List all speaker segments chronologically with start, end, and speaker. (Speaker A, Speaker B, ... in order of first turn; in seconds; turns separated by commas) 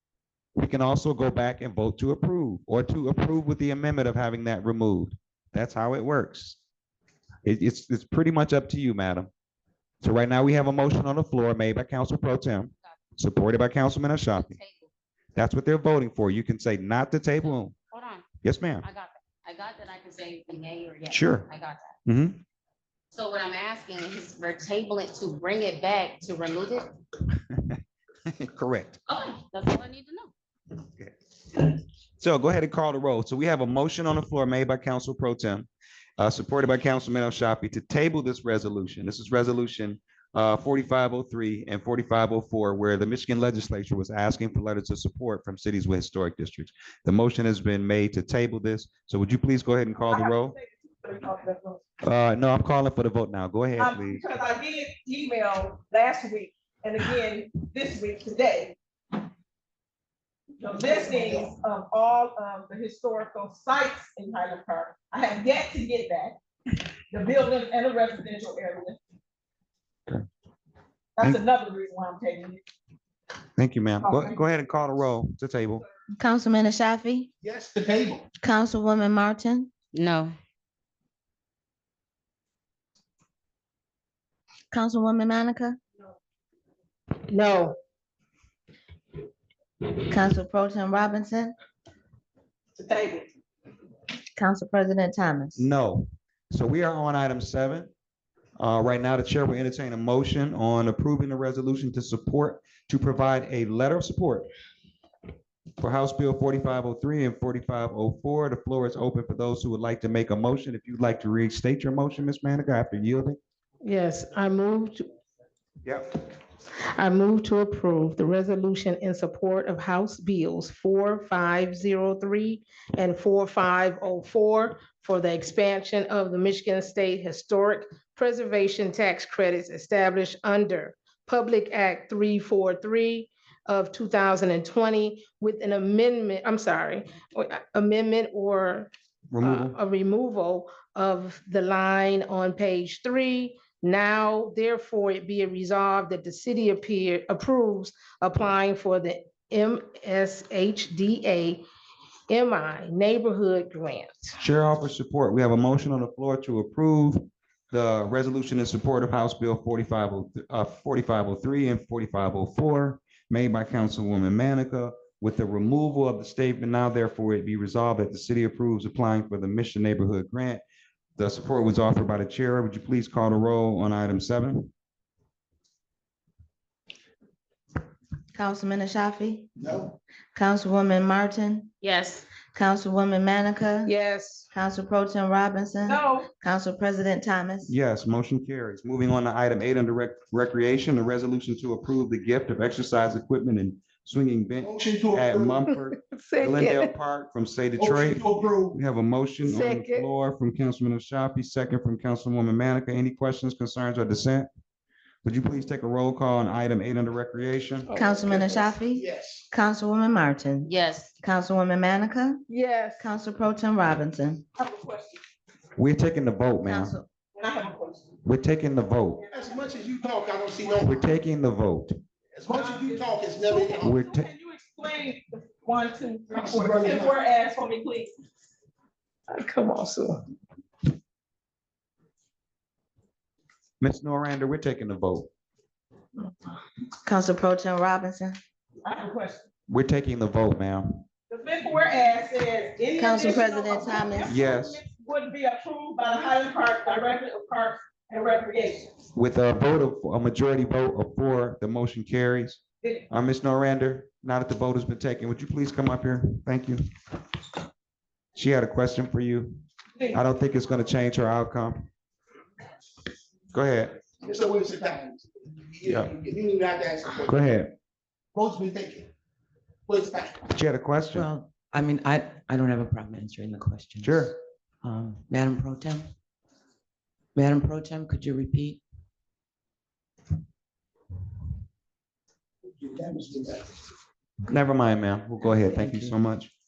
Speaker A: 0.6-6.6, Speaker A: 7.4-9.3, Speaker A: 10.0-14.6, Speaker B: 14.3-14.9, Speaker A: 15.3-17.8, Speaker B: 17.5-18.2, Speaker A: 18.4-18.9, Speaker B: 18.8-21.9, Speaker A: 21.1-21.5, Speaker A: 22.1-22.4, Speaker B: 23.1-26.9, Speaker A: 27.5-27.8, Speaker A: 28.3-29.0, Speaker B: 29.1-30.3, Speaker A: 31.0-50.6, Speaker C: 50.0-51.8, Speaker A: 52.0-54.2, Speaker C: 53.8-58.7, Speaker C: 60.6-66.3, Speaker C: 67.1-69.0, Speaker C: 71.2-72.6, Speaker A: 73.6-75.8, Speaker C: 74.0-74.4, Speaker D: 76.2-77.3, Speaker E: 77.4-78.2, Speaker D: 78.4-79.7, Speaker B: 79.9-80.3, Speaker D: 84.7-85.8, Speaker F: 87.3-87.8, Speaker D: 90.1-91.5, Speaker C: 92.8-93.3, Speaker D: 94.3-95.7, Speaker A: 95.6-97.9, Speaker A: 98.6-104.5, Speaker A: 105.8-113.4, Speaker F: 113.8-115.1, Speaker A: 115.8-116.1, Speaker F: 116.8-138.9, Speaker A: 139.3-139.8, Speaker F: 139.4-151.6, Speaker F: 152.3-154.3, Speaker A: 154.4-170.6, Speaker A: 171.2-174.7, Speaker D: 178.3-179.5, Speaker E: 179.6-180.0, Speaker D: 180.3-181.7, Speaker B: 181.8-182.3, Speaker D: 182.5-183.9, Speaker F: 183.8-184.5, Speaker D: 184.5-187.8, Speaker C: 185.8-186.3, Speaker A: 187.7-204.5, Speaker E: 194.6-195.7, Speaker F: 196.0-196.9, Speaker E: 197.8-198.8, Speaker F: 199.4-200.1, Speaker A: 205.2-207.9, Speaker F: 207.9-208.7, Speaker D: 207.9-212.4, Speaker E: 208.5-209.4, Speaker B: 210.7-211.1, Speaker F: 212.5-213.0, Speaker D: 213.0-214.4, Speaker C: 214.6-215.2, Speaker A: 215.8-216.9, Speaker D: 216.7-217.1, Speaker C: 217.3-218.0, Speaker A: 218.2-219.2, Speaker E: 219.3-221.0, Speaker A: 220.8-222.0, Speaker E: 222.3-223.9, Speaker C: 222.5-228.1, Speaker A: 223.8-224.3, Speaker E: 226.3-227.2, Speaker F: 229.3-230.2, Speaker A: 233.8-235.3, Speaker D: 237.0-238.4, Speaker C: 238.8-239.4, Speaker A: 239.7-241.0, Speaker C: 241.3-248.9, Speaker D: 242.9-244.4, Speaker A: 244.2-244.8, Speaker A: 249.2-256.8, Speaker A: 258.4-261.9, Speaker A: 263.5-264.0, Speaker E: 264.2-267.4, Speaker A: 265.9-266.1, Speaker A: 267.2-267.7, Speaker E: 268.3-269.1, Speaker E: 269.9-270.4, Speaker A: 270.5-271.3, Speaker G: 271.1-276.1, Speaker A: 274.0-274.3, Speaker G: 277.4-278.8, Speaker E: 282.7-283.7, Speaker A: 284.5-286.5, Speaker G: 285.6-286.2